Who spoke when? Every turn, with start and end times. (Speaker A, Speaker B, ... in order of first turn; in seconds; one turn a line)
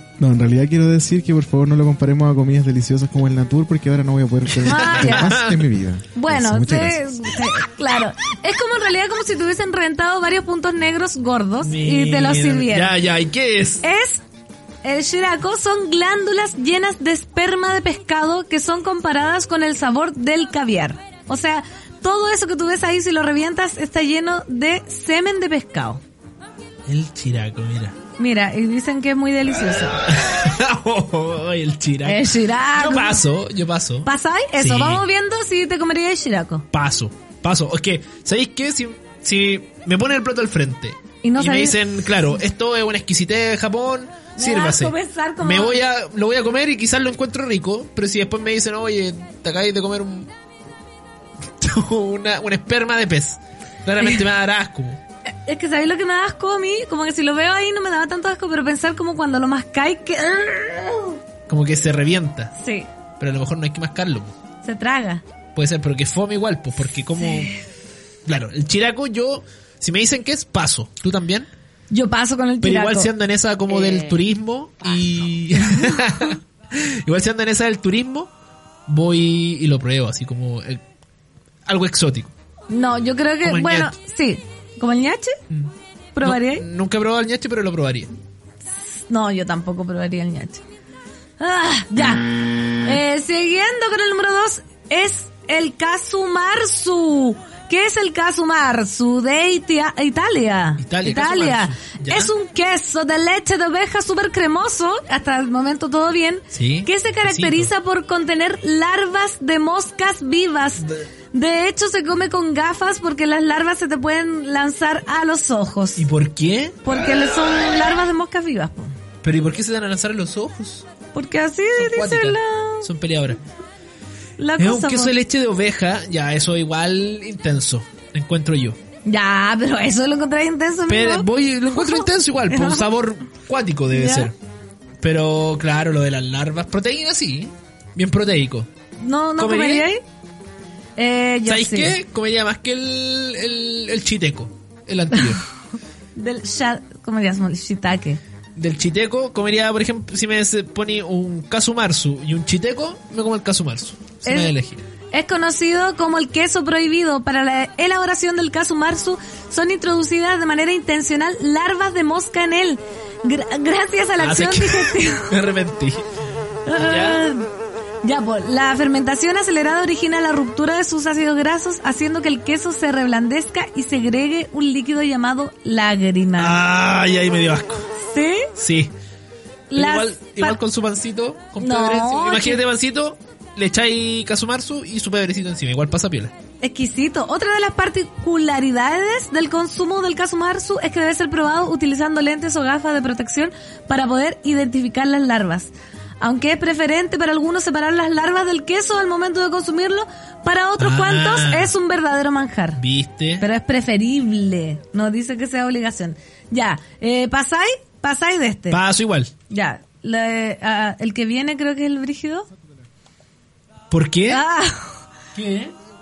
Speaker A: 0.2-7.1
Speaker B: 4.5-5.7
Speaker C: 4.7-5.3
Speaker C: 6.1-12.9
Speaker B: 11.6-13.8
Speaker C: 13.8-14.2
Speaker C: 14.8-26.0
Speaker B: 26.9-28.0
Speaker C: 28.2-30.0
Speaker B: 30.1-35.0
Speaker C: 32.0-33.2
Speaker C: 34.0-36.6
Speaker B: 36.7-50.3
Speaker C: 41.2-41.8
Speaker C: 44.4-45.8
Speaker B: 51.6-55.0
Speaker C: 55.5-61.2
Speaker B: 61.5-62.5
Speaker C: 62.6-62.9
Speaker B: 63.2-64.3
Speaker C: 64.6-65.2
Speaker B: 65.5-67.5
Speaker B: 68.2-71.5
Speaker C: 71.9-73.1
Speaker B: 72.6-78.3
Speaker B: 78.9-80.8
Speaker B: 81.7-82.3
Speaker C: 82.7-85.4
Speaker B: 83.4-83.9
Speaker B: 85.5-88.1
Speaker C: 86.1-86.6
Speaker C: 89.1-90.6
Speaker C: 91.4-116.1
Speaker B: 100.8-102.3
Speaker B: 106.5-107.7
Speaker B: 116.0-116.9
Speaker C: 116.8-118.9
Speaker B: 119.2-120.9
Speaker C: 121.1-122.9
Speaker B: 121.8-123.4
Speaker C: 124.4-125.1
Speaker B: 124.6-128.8
Speaker C: 129.1-132.9
Speaker B: 130.9-134.3
Speaker C: 133.9-134.3
Speaker B: 135.0-138.7
Speaker C: 139.0-140.0
Speaker B: 139.4-139.9
Speaker C: 141.0-142.0
Speaker B: 141.5-145.4
Speaker C: 146.2-148.2
Speaker B: 148.6-154.8
Speaker C: 154.2-154.5
Speaker C: 155.1-165.3
Speaker B: 164.2-166.1
Speaker C: 166.7-167.5
Speaker B: 166.7-167.2
Speaker C: 168.0-176.6
Speaker B: 176.4-177.9
Speaker C: 178.0-178.5
Speaker B: 178.6-178.9
Speaker C: 179.7-180.6
Speaker B: 179.7-186.3
Speaker C: 181.6-182.6
Speaker C: 186.6-202.8
Speaker B: 200.8-201.7
Speaker B: 202.8-203.4
Speaker C: 203.4-208.8
Speaker B: 208.7-209.3
Speaker C: 209.5-212.5
Speaker B: 213.9-214.4
Speaker C: 214.3-215.0
Speaker B: 215.3-215.8